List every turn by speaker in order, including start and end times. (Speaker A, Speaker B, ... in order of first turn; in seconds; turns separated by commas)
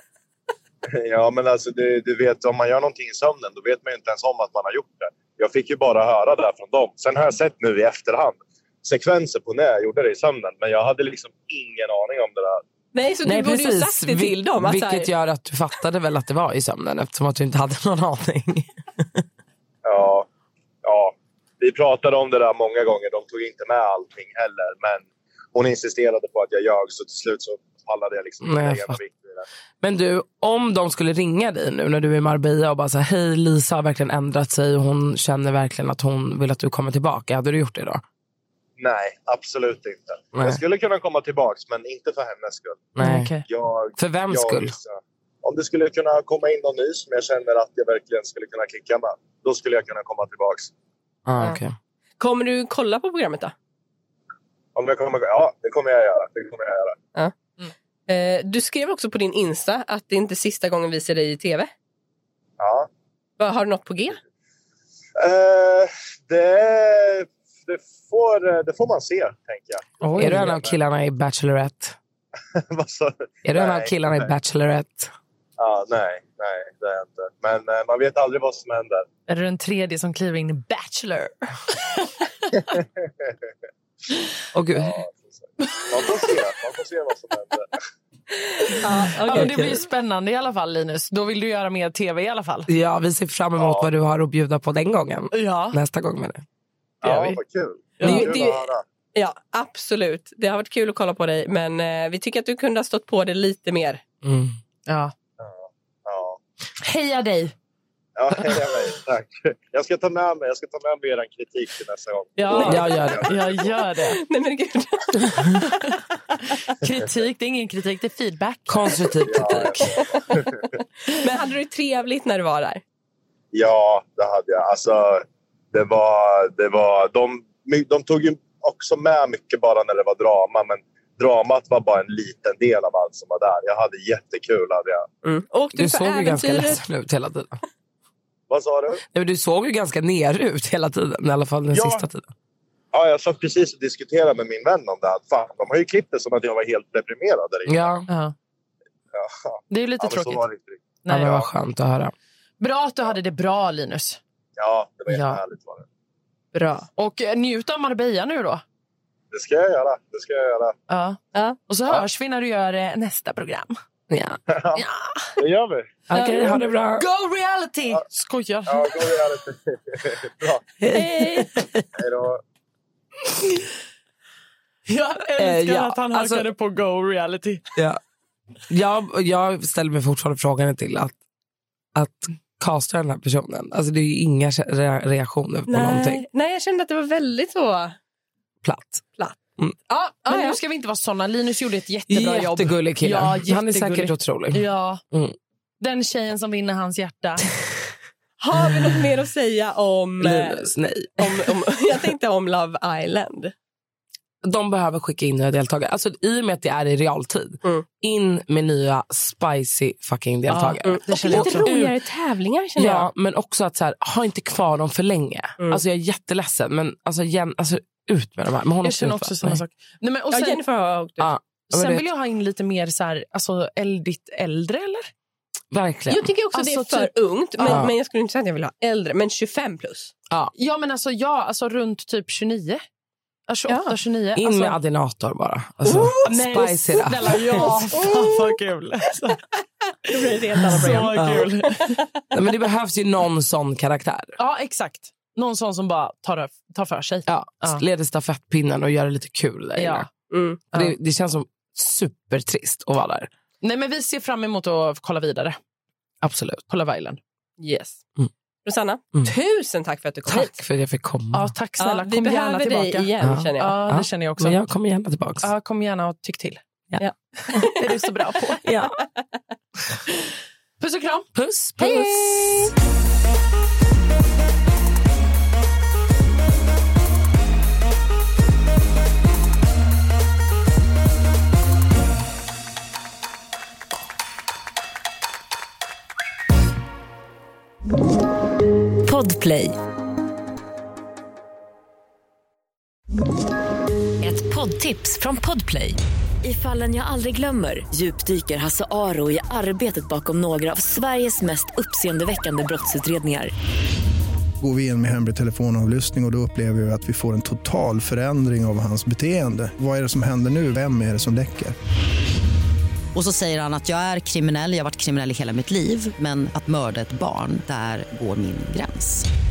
Speaker A: 0.9-12.6, Speaker B: 12.9-15.1, Speaker C: 13.2-19.2, Speaker A: 19.8-20.3, Speaker A: 20.8-29.4, Speaker C: 28.4-29.0, Speaker C: 29.8-38.0, Speaker A: 38.8-42.9, Speaker C: 40.3-40.6, Speaker C: 43.0-43.3, Speaker D: 43.0-43.4, Speaker A: 43.4-50.7, Speaker C: 44.0-44.8, Speaker C: 51.2-51.7, Speaker B: 52.2-53.5, Speaker A: 54.7-57.0, Speaker B: 58.1-61.7, Speaker A: 62.6-62.9, Speaker B: 63.4-64.2, Speaker A: 65.2-70.8, Speaker D: 70.0-70.5, Speaker C: 70.2-72.0, Speaker A: 72.5-74.3, Speaker C: 73.4-75.1, Speaker A: 75.6-79.1, Speaker D: 79.3-82.2, Speaker A: 82.6-83.4, Speaker C: 84.5-85.0, Speaker A: 84.7-87.8, Speaker B: 88.8-89.6, Speaker D: 89.2-92.7, Speaker C: 89.3-89.8, Speaker C: 92.7-96.4, Speaker A: 93.6-93.9, Speaker D: 95.3-95.8, Speaker A: 97.0-98.8, Speaker D: 98.0-98.3, Speaker B: 98.0-104.0, Speaker C: 104.2-104.5, Speaker D: 104.9-105.1, Speaker A: 105.4-106.4, Speaker D: 106.8-107.5, Speaker A: 108.2-113.6, Speaker D: 112.4-114.2, Speaker C: 112.5-113.3, Speaker B: 114.1-115.8, Speaker D: 115.6-115.9, Speaker D: 116.6-119.1, Speaker C: 118.7-119.8, Speaker A: 119.2-120.7, Speaker B: 121.0-122.8, Speaker A: 123.5-135.1, Speaker B: 135.2-136.8, Speaker C: 135.7-137.6, Speaker A: 138.5-139.0, Speaker C: 139.1-142.3, Speaker A: 141.7-142.1, Speaker A: 142.9-147.9, Speaker C: 147.7-148.1, Speaker D: 148.1-148.3, Speaker A: 149.1-151.4, Speaker D: 149.7-150.4, Speaker D: 151.0-151.4, Speaker C: 151.1-152.1, Speaker D: 152.6-154.2, Speaker A: 154.6-155.8, Speaker D: 155.1-155.4, Speaker B: 156.5-156.9, Speaker D: 157.0-158.6, Speaker A: 159.3-160.8, Speaker D: 160.9-163.8, Speaker B: 161.3-161.6, Speaker C: 164.1-164.4, Speaker A: 164.5-164.8, Speaker D: 164.7-165.4, Speaker A: 165.4-166.0, Speaker C: 166.1-167.1, Speaker B: 166.1-166.6, Speaker D: 166.9-169.0, Speaker A: 168.7-170.6, Speaker C: 170.8-171.9, Speaker B: 170.9-171.5, Speaker A: 171.9-172.4, Speaker D: 174.9-177.6, Speaker C: 175.4-176.5, Speaker C: 178.7-181.1, Speaker C: 181.9-186.2, Speaker B: 185.7-187.9, Speaker C: 188.6-189.1, Speaker D: 189.9-195.0, Speaker B: 190.3-190.6, Speaker C: 192.1-195.3, Speaker D: 195.8-197.5, Speaker B: 198.4-203.5, Speaker C: 200.2-201.5, Speaker C: 204.4-211.9, Speaker D: 210.5-211.8, Speaker B: 210.8-213.1, Speaker C: 212.8-219.6, Speaker D: 218.8-220.6, Speaker B: 220.3-221.3, Speaker C: 221.2-222.1, Speaker D: 221.7-225.1, Speaker C: 225.7-226.3, Speaker B: 226.1-230.1, Speaker D: 226.5-227.9, Speaker C: 227.6-227.9, Speaker D: 230.5-232.8, Speaker D: 233.5-234.8, Speaker B: 233.7-233.9, Speaker C: 234.3-237.7, Speaker B: 235.8-236.2, Speaker D: 235.9-239.4, Speaker B: 238.0-238.5, Speaker B: 240.1-241.9, Speaker D: 240.6-242.0, Speaker C: 241.1-241.5, Speaker C: 242.3-244.3, Speaker D: 244.4-247.8, Speaker C: 247.3-250.1, Speaker D: 249.8-250.1, Speaker B: 250.3-250.6, Speaker C: 250.7-253.3, Speaker D: 253.6-255.6, Speaker C: 256.2-256.6, Speaker D: 256.7-257.2, Speaker B: 257.6-258.0, Speaker B: 258.6-260.5, Speaker C: 260.3-261.5, Speaker D: 261.3-264.6, Speaker B: 261.8-263.8, Speaker C: 263.2-265.5, Speaker D: 265.4-266.6, Speaker C: 266.9-267.7, Speaker B: 267.0-267.9, Speaker D: 267.5-268.7, Speaker C: 268.6-269.0, Speaker D: 270.8-271.3, Speaker C: 271.3-272.7, Speaker B: 271.8-272.7, Speaker E: 289.0-289.8, Speaker E: 294.2-303.5, Speaker F: 304.6-311.7, Speaker G: 313.1-319.3